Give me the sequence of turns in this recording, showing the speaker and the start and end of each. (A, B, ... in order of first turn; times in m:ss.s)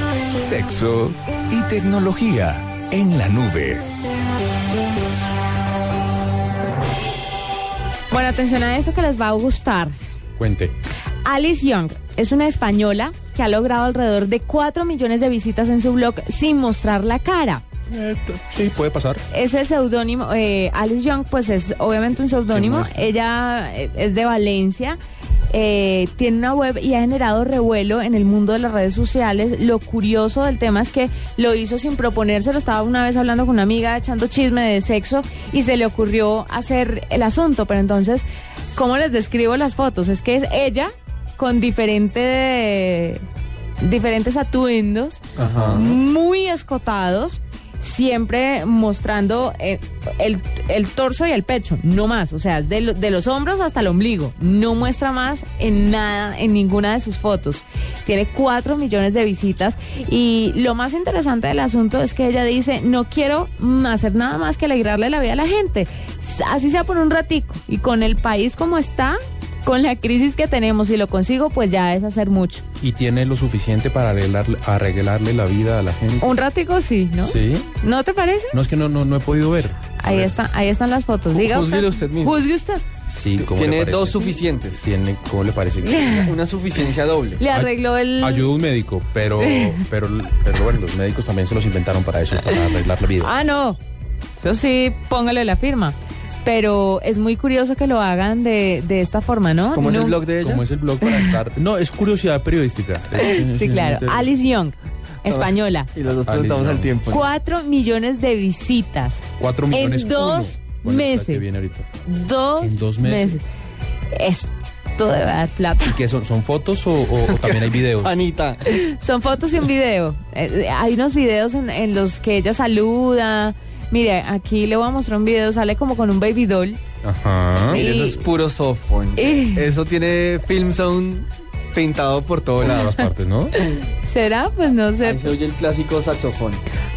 0:00.4-0:03.8 A
0:08.1-0:10.0 B
0:10.4-0:10.7 C
0:11.2-0:17.6 B
0:17.9-0:19.2 C
0:19.3-0:25.0 B
0:22.5-0:23.1 D
0:25.5-0:43.2 B
0:43.8-1:12.7 B
0:45.4-0:45.9 D
1:12.8-1:16.3 C
1:16.2-1:18.6 B
1:17.2-1:17.7 C
1:18.5-1:20.2 C
1:20.0-1:22.9 B
1:21.3-1:22.4 D
1:23.0-1:26.3 C
1:23.4-1:24.8 D
1:25.8-1:26.3 B
1:26.0-1:27.4 D
1:27.4-1:28.6 B
1:27.5-1:33.3 C
1:29.4-1:29.8 B
1:32.3-1:33.8 B
1:34.4-1:40.3 B
1:39.7-1:40.6 D
1:40.4-1:44.3 C
1:41.0-1:41.4 B
1:43.1-1:45.9 B
1:45.2-1:47.3 D
1:46.2-1:47.0 C
1:47.0-1:53.4 B
1:49.4-1:51.9 C
1:52.6-1:53.4 C
1:54.1-1:56.0 B
1:55.8-1:58.1 C
1:57.1-1:58.6 D
1:58.6-2:06.8 B
2:07.0-2:07.8 C
2:07.7-2:12.9 D
2:07.7-2:08.3 B
2:09.1-2:09.7 B
2:12.6-2:13.5 C
2:12.8-2:13.1 B
2:13.6-2:15.4 B
2:15.0-2:16.6 D